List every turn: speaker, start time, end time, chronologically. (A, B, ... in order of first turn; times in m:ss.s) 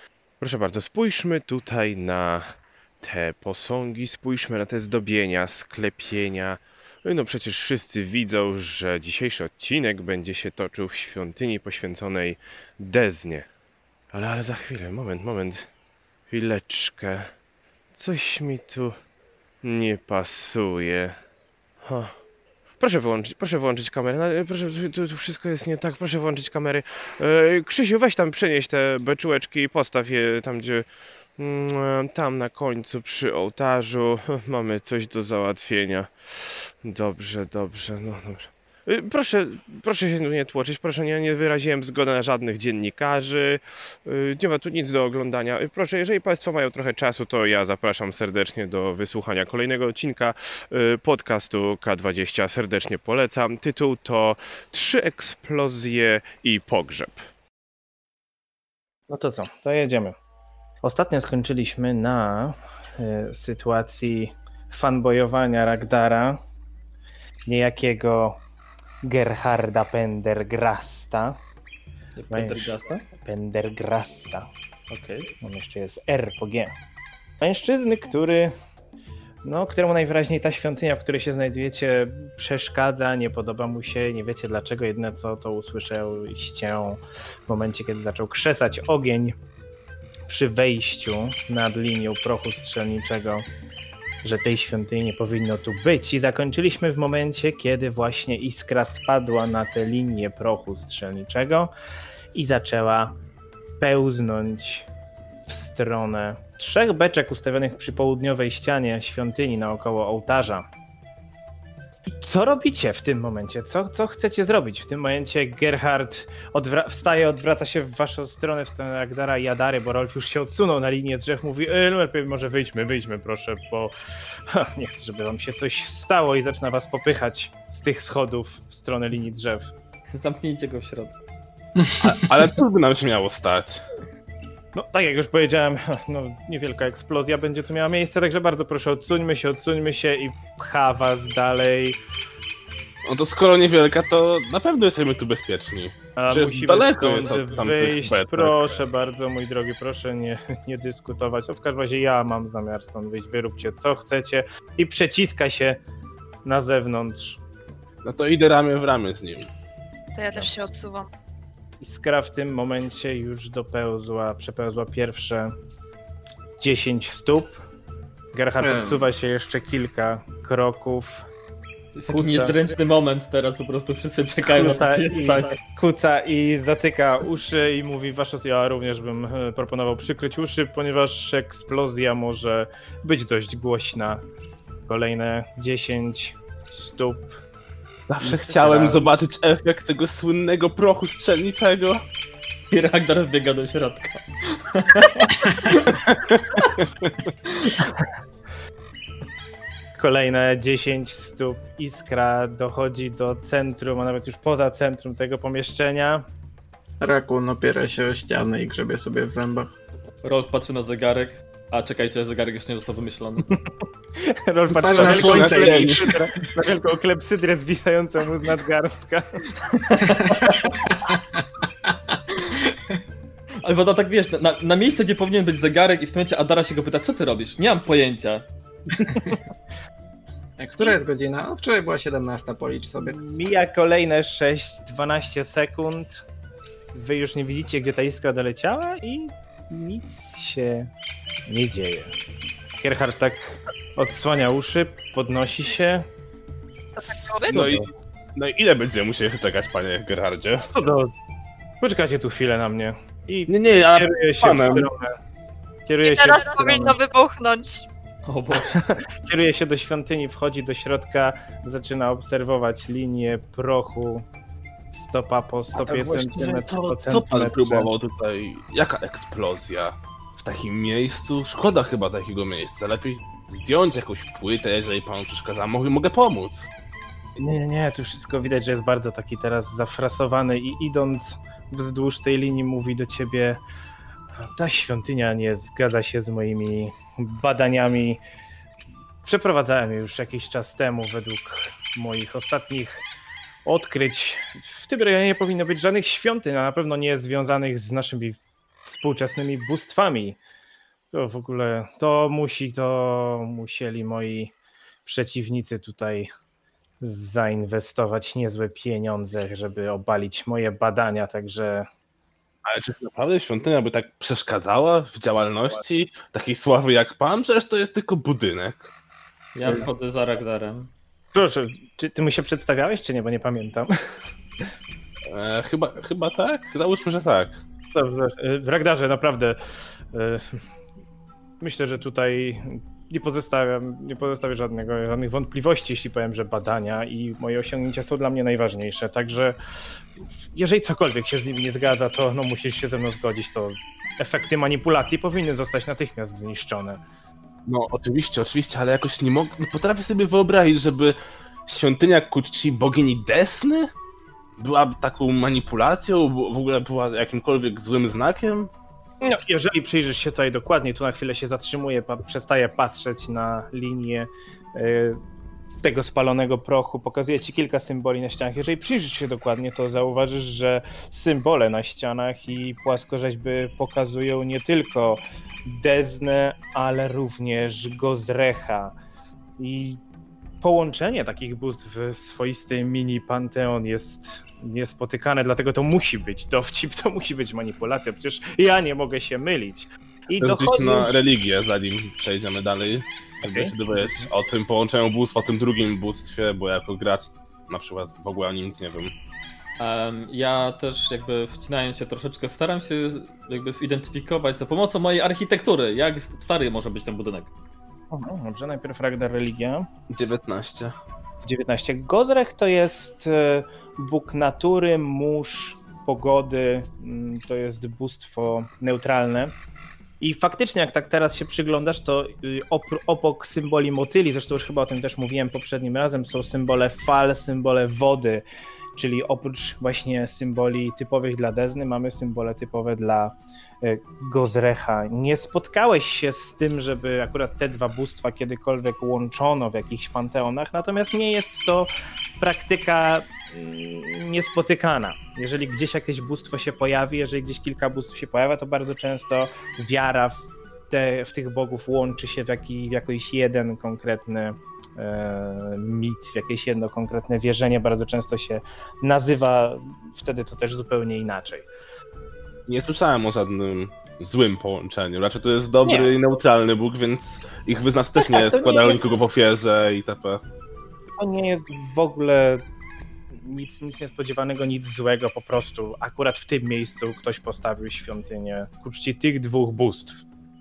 0:00.4-0:13.5 A
0:14.1-0:15.7 A
0:16.3-0:17.3 A
0:17.9-0:19.0 A
0:19.6-0:21.2 A
0:21.8-0:22.2 A
0:22.8-0:57.3 A
0:59.1-1:00.2 B
1:00.8-1:06.4 B
1:07.5-1:08.4 B
1:09.0-1:11.4 B
1:12.2-1:13.0 C
1:12.3-1:14.5 B
1:14.9-1:15.3 C
1:15.4-1:16.7 B
1:17.4-1:18.5 B
1:19.4-1:29.4 B
1:30.3-1:33.5 B
1:34.2-1:41.7 B
1:42.3-1:43.2 B
1:43.8-1:44.9 B
1:45.5-1:50.7 B
1:52.1-2:09.7 B
2:10.1-2:11.2 C
2:12.0-2:13.8 D
2:14.8-2:22.0 B
2:23.0-2:28.8 D
2:26.2-2:35.8 B
2:36.4-2:37.4 B
2:38.0-2:39.5 D
2:40.2-2:41.1 E
2:41.8-2:45.5 B
2:46.6-2:47.6 B
2:48.3-2:51.3 B
2:48.6-2:49.1 F
2:52.0-2:55.6 C
2:52.1-2:52.6 B
2:54.4-3:04.2 B
3:04.9-3:07.4 B
3:08.1-3:12.0 D
3:08.2-3:09.0 B
3:12.7-3:15.9 C
3:16.1-3:17.2 D
3:20.0-3:26.2 B
3:27.0-3:29.7 F
3:30.2-3:33.5 C
3:34.2-3:39.5 B
3:34.8-3:36.2 F
3:34.9-3:36.1 D
3:39.7-3:41.0 C
3:40.1-3:42.6 F
3:43.6-3:48.5 C
3:49.0-3:49.4 B
3:50.6-3:53.2 F
3:53.0-3:56.2 B
3:56.9-4:00.9 B
4:01.5-4:02.1 B
4:02.8-4:06.1 B
4:07.0-4:07.7 E
4:07.0-4:07.9 B
4:07.5-4:07.8 D
4:08.4-4:10.7 D
4:10.6-4:11.1 B
4:11.8-4:15.2 B
4:13.5-4:14.9 D
4:15.9-4:17.0 B
4:16.0-4:17.9 E
4:18.3-4:18.8 C
4:18.6-4:24.3 B
4:24.9-4:27.9 B
4:25.8-4:36.7 D
4:37.4-4:43.6 B
4:44.4-4:48.2 B
4:49.2-4:53.0 B
4:53.6-5:00.4 B
5:01.1-5:04.5 B
5:05.0-5:06.3 B
5:07.0-5:11.9 B
5:12.6-5:18.9 D
5:19.6-5:20.9 C
5:21.3-5:23.9 B
5:25.3-5:27.6 D
5:27.9-5:29.6 B
5:30.1-5:30.6 B
5:31.6-5:39.6 B
5:40.3-5:47.0 B
5:47.7-5:51.2 D
5:51.7-5:53.9 D
5:54.6-5:58.7 D
5:59.2-6:05.2 B
6:05.8-6:18.9 B
6:19.6-6:20.0 B
6:20.6-6:31.1 B
6:30.4-6:39.1 D
6:33.4-6:34.3 B
6:39.8-6:47.5 C
6:48.1-6:49.9 B
6:50.1-6:50.9 D
6:51.4-6:59.5 B
7:00.2-7:08.4 B
7:09.0-7:41.7 B
7:42.7-7:50.4 D
7:45.8-7:46.1 B
7:48.2-7:49.2 B
7:51.2-7:52.6 B
7:53.3-8:00.2 B